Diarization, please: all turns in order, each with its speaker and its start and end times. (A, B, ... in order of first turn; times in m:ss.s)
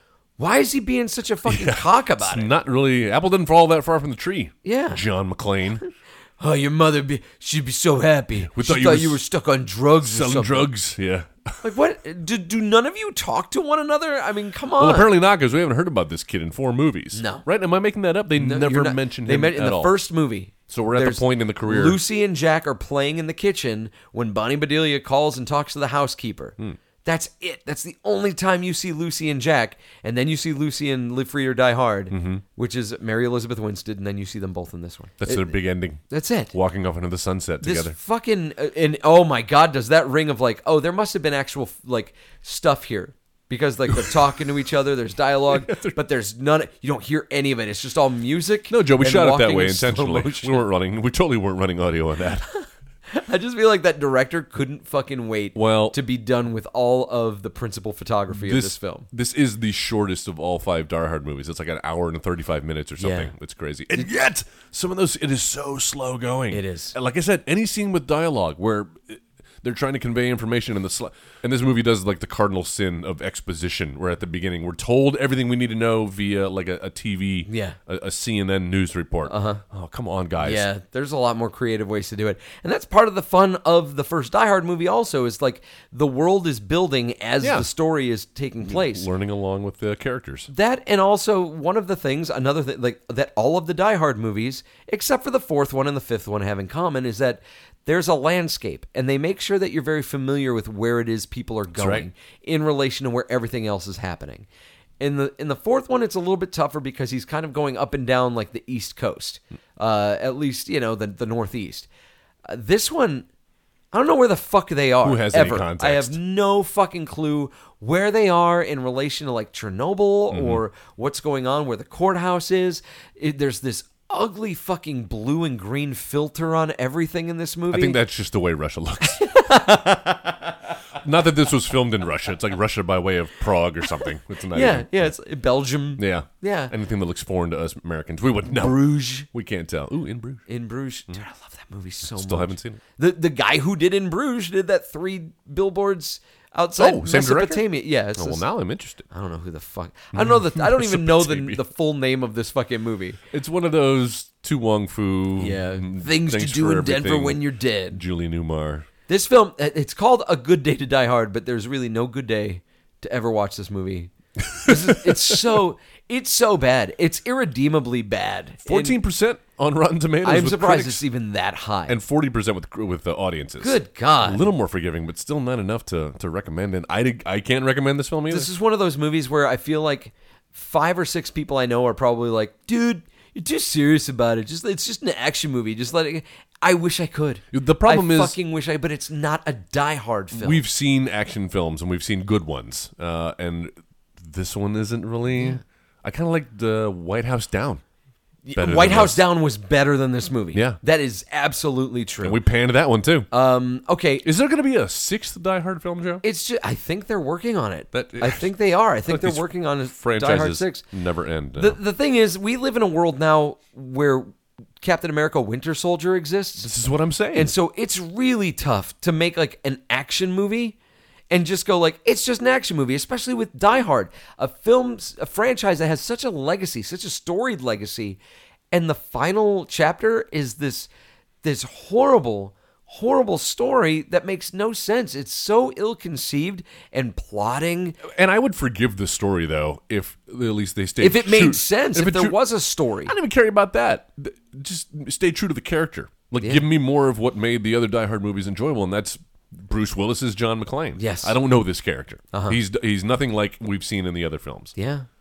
0:00.4-0:02.5 A
0:01.4-0:05.8 B
0:04.6-0:05.0 A
0:06.4-0:10.7 A
0:08.4-0:09.2 B
0:10.0-0:11.5 B
0:11.6-0:15.1 A
0:14.8-0:19.9 B
0:17.1-0:17.4 A
0:18.4-0:35.5 A
0:20.7-0:22.0 B
0:32.1-0:32.4 B
0:35.2-0:38.0 B
0:36.1-0:36.5 A
0:37.6-0:50.6 A
0:43.9-0:44.2 B
0:45.5-0:46.0 B
0:48.7-0:52.5 B
0:53.1-0:59.1 A
0:55.5-0:56.0 B
0:58.3-1:20.6 B
1:03.0-1:03.3 A
1:06.5-1:07.0 A
1:17.5-1:17.8 A
1:19.3-1:19.6 A
1:20.4-1:29.0 A
1:27.4-1:27.7 B
1:28.6-1:30.5 B
1:30.5-1:44.5 A
1:41.8-1:42.0 B
1:45.0-1:51.9 A
1:52.5-1:53.3 A
1:53.9-2:08.0 A
1:55.0-1:56.2 B
2:00.3-2:00.6 B
2:07.7-2:09.3 B
2:09.2-2:10.5 A
2:11.0-2:15.1 B
2:14.5-2:16.7 A
2:16.0-2:20.4 B
2:18.5-2:19.3 A
2:20.5-2:28.4 A
2:22.1-2:22.8 B
2:26.8-2:29.0 B
2:29.1-2:33.2 A
2:30.1-2:31.6 B
2:33.3-2:38.9 B
2:35.4-2:38.0 A
2:39.1-2:49.0 A
2:44.5-2:45.4 B
2:48.6-2:51.0 B
2:50.2-2:52.0 A
2:51.9-2:58.5 B
2:53.6-2:54.4 A
2:58.3-3:10.6 A
3:07.5-3:08.4 B
3:10.3-3:17.8 B
3:15.3-3:15.6 A
3:18.4-3:22.4 A
3:18.6-3:19.2 B
3:20.5-3:20.8 B
3:22.2-3:23.3 B
3:23.3-3:24.2 A
3:24.2-3:26.2 B
3:26.2-3:30.8 A
3:27.9-3:28.5 B
3:29.1-3:31.8 B
3:31.6-3:36.7 A
3:36.6-3:37.5 B
3:37.3-3:40.8 A
3:41.3-3:48.2 A
3:48.7-3:50.9 A
3:51.4-3:58.0 A
3:58.0-4:02.4 B
4:01.0-4:03.1 A
4:03.0-4:14.7 B
4:11.0-4:11.4 A
4:12.3-4:12.6 A
4:14.8-4:15.0 A